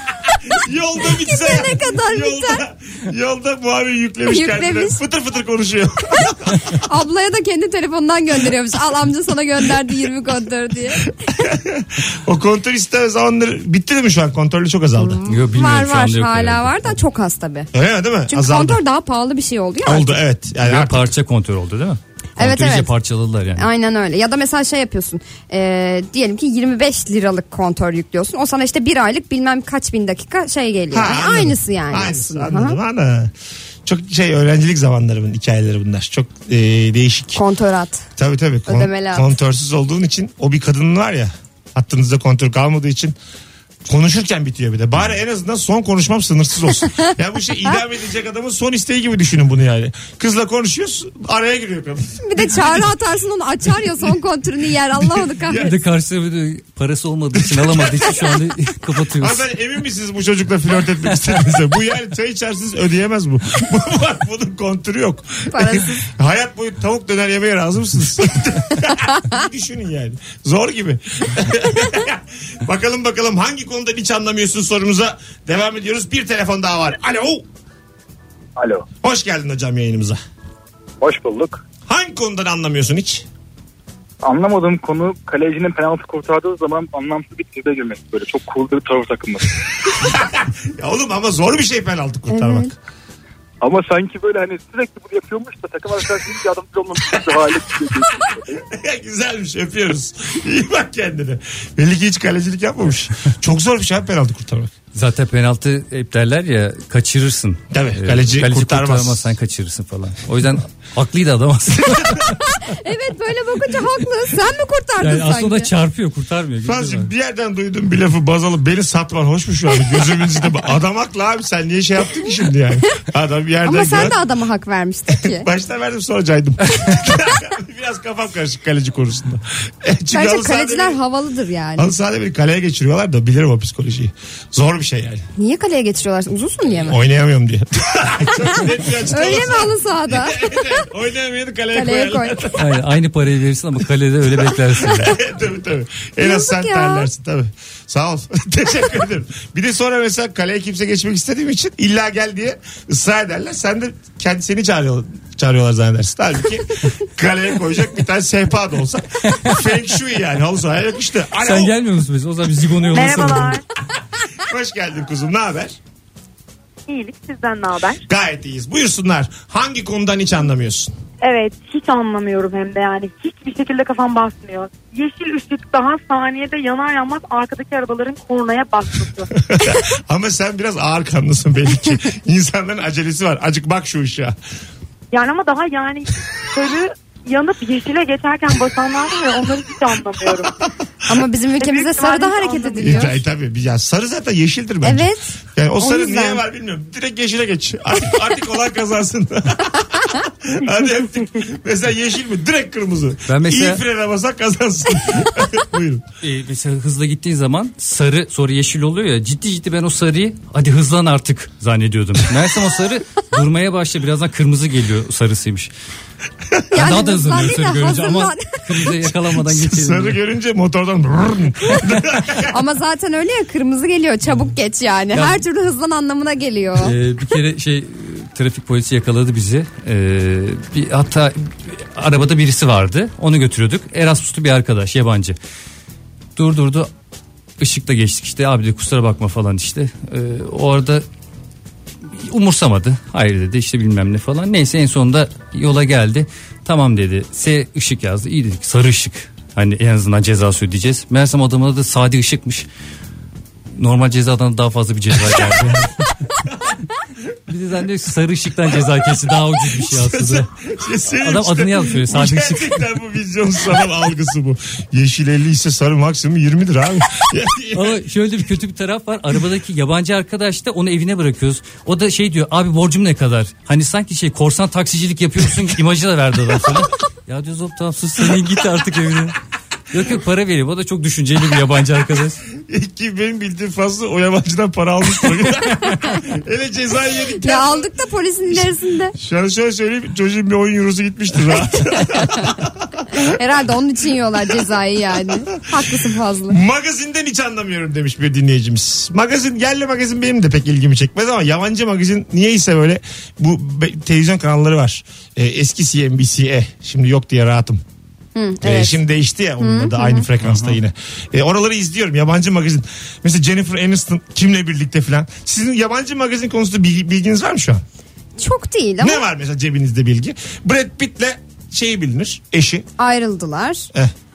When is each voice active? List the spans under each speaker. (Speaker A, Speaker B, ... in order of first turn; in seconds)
Speaker A: 0.2-6.8, 11.3-15.2, 17.7-18.8, 19.9-21.1, 30.9-33.3, 33.9-37.4, 38.2-43.2, 43.9-52.9, 55.0-55.8, 57.4-58.3, 59.1-77.5, 79.0-80.2, 81.9-83.3, 89.9-92.7, 98.5-104.7, 107.7-109.3, 116.6-124.2, 125.1-131.0, 131.8-135.2, 136.8-142.7, 144.7-161.7, 164.4-165.8, 168.1-170.9, 179.3-184.3, 192.8-206.0, 219.3-222.6, 256.5-256.8, 259.7-268.0, 282.6-287.9, 288.5-293.3, 295.8-307.8, 308.6-317.8, 319.0-322.9
Speaker B: 1.0-2.6, 4.3-5.0, 6.8-11.1, 15.0-17.7, 18.3-20.2, 22.4-22.9, 23.6-32.8, 37.4-38.1, 38.7-39.3, 52.2-55.7, 65.5-66.0, 92.3-92.7, 112.5-115.7, 123.6-125.5, 130.1-131.9, 135.4-137.0, 139.1-140.8, 141.7-142.5, 146.2-147.1, 191.1-193.2, 194.8-196.4, 216.7-218.9, 222.4-226.9, 287.4-289.1, 292.2-292.4, 293.1-296.6, 308.4-309.0, 309.6-310.3, 318.4-319.3, 323.0-323.9
Speaker C: 15.3-17.0, 20.6-23.7, 55.6-59.5, 104.9-112.3, 115.0-117.1, 142.6-145.1, 159.3-159.6, 161.4-163.6, 203.3-203.8, 206.2-215.7, 216.7-220.2, 225.1-225.4, 226.8-235.4, 236.4-236.9, 237.6-241.0, 242.2-252.7, 253.8-256.3, 257.5-260.5, 261.2-262.9, 267.7-279.4, 279.9-282.4
Speaker D: 78.6-78.9, 81.0-81.6, 84.2-89.6, 93.6-98.4
Speaker E: 162.9-163.6, 166.9-168.0, 171.2-179.3, 185.1-190.5, 191.6-193.1